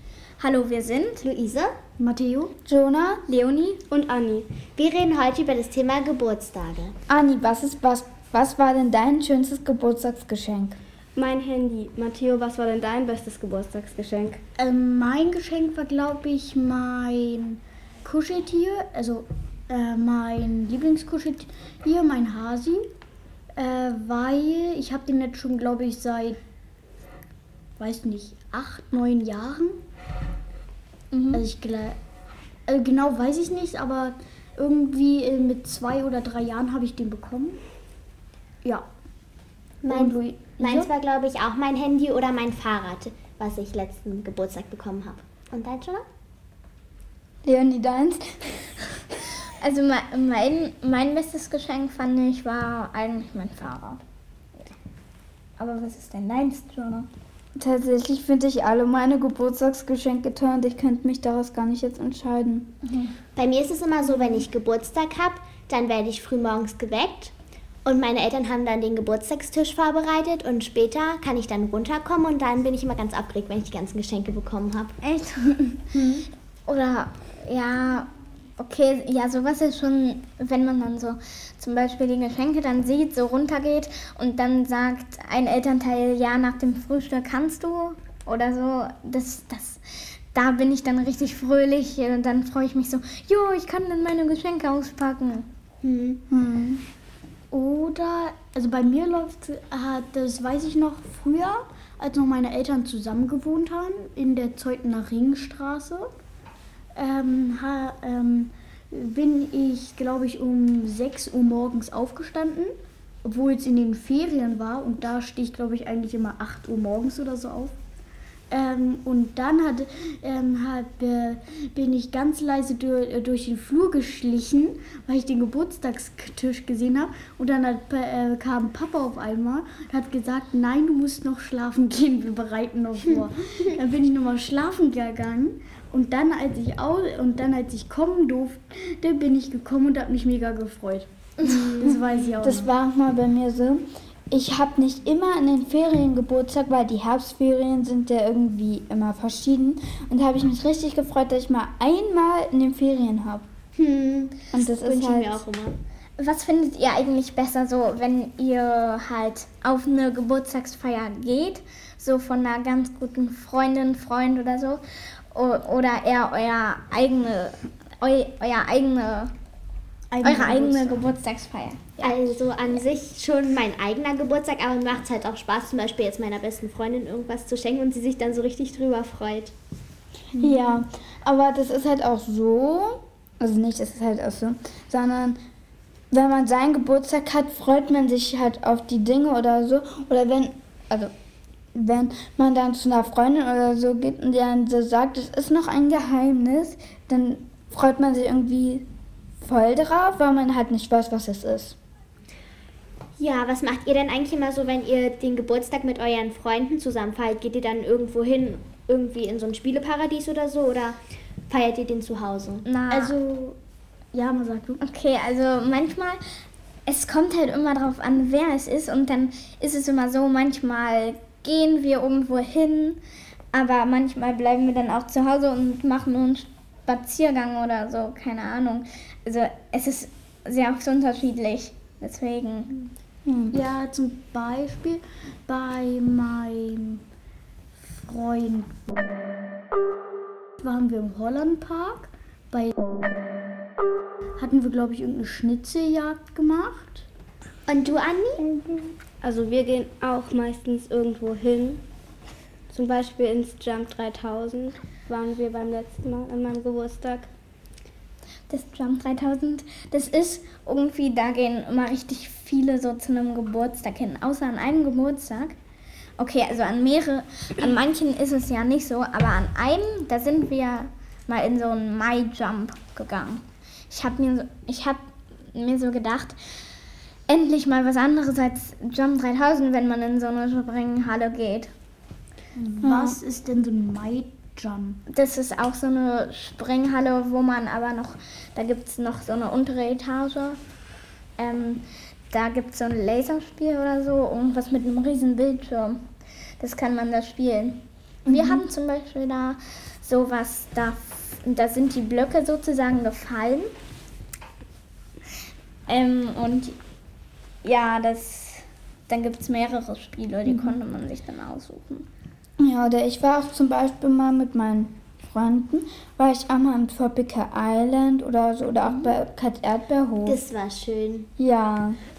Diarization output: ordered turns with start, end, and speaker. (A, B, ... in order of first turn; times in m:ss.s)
0:00.4-0:01.2 A
0:01.2-0:01.8 B
0:02.0-0:02.5 C
0:02.7-0:03.2 D
0:03.3-0:03.8 A
0:03.9-0:04.6 E
0:04.7-0:07.0 B
0:07.1-0:10.8 D
0:11.1-0:14.4 E
0:14.6-0:22.9 C
0:23.6-0:26.4 C
0:27.8-0:29.8 C
0:31.1-0:31.4 A
0:31.3-0:32.0 C
0:32.7-0:37.6 C
0:39.8-0:46.0 B
0:39.9-0:40.9 C
0:47.4-0:49.0 D
0:49.6-0:54.0 A
0:55.6-0:57.1 A
0:57.6-1:02.7 D
1:02.8-1:03.1 A
1:03.4-1:07.3 B
1:07.8-1:15.0 B
1:15.0-1:15.9 A
1:16.7-1:29.8 A
1:30.3-1:35.5 A
1:35.8-1:36.2 B
1:36.3-1:36.8 D
1:37.5-1:46.1 C
1:46.9-1:57.8 C
1:58.5-2:22.7 C
2:21.5-2:21.9 B
2:21.8-2:33.4 D
2:33.8-2:35.8 B
2:34.5-2:35.4 D
2:36.2-2:44.8 A
2:45.3-2:49.3 A
2:50.1-2:51.0 C
2:50.2-2:52.4 A
2:52.0-2:59.5 B
3:00.4-3:05.4 D
3:06.1-3:11.1 D
3:11.7-3:18.8 D
3:19.4-3:21.8 D
3:23.2-3:32.7 B
3:32.7-3:33.1 A
3:32.9-3:33.6 C
3:34.1-3:34.8 C
3:34.8-3:36.2 A
3:36.8-3:43.0 A
3:43.5-3:52.7 A
3:53.2-3:53.6 D
3:53.5-3:57.0 C
3:57.8-3:58.8 C
4:00.6-4:03.0 C
4:04.4-4:07.1 C
4:07.7-4:08.4 B
4:08.6-4:11.8 E
4:12.7-4:17.3 E
4:18.5-4:25.6 A
4:26.2-4:36.4 A
4:37.3-4:41.7 A
4:42.6-4:45.0 C
4:42.8-4:43.2 D
4:45.1-4:50.6 A
4:51.4-4:56.0 A
4:56.6-5:03.7 A
4:58.2-4:58.6 D
5:05.9-5:06.8 A
5:07.6-5:12.1 A
5:10.5-5:10.8 D
5:12.6-5:20.4 D
5:20.2-5:21.3 B
5:21.4-5:22.0 D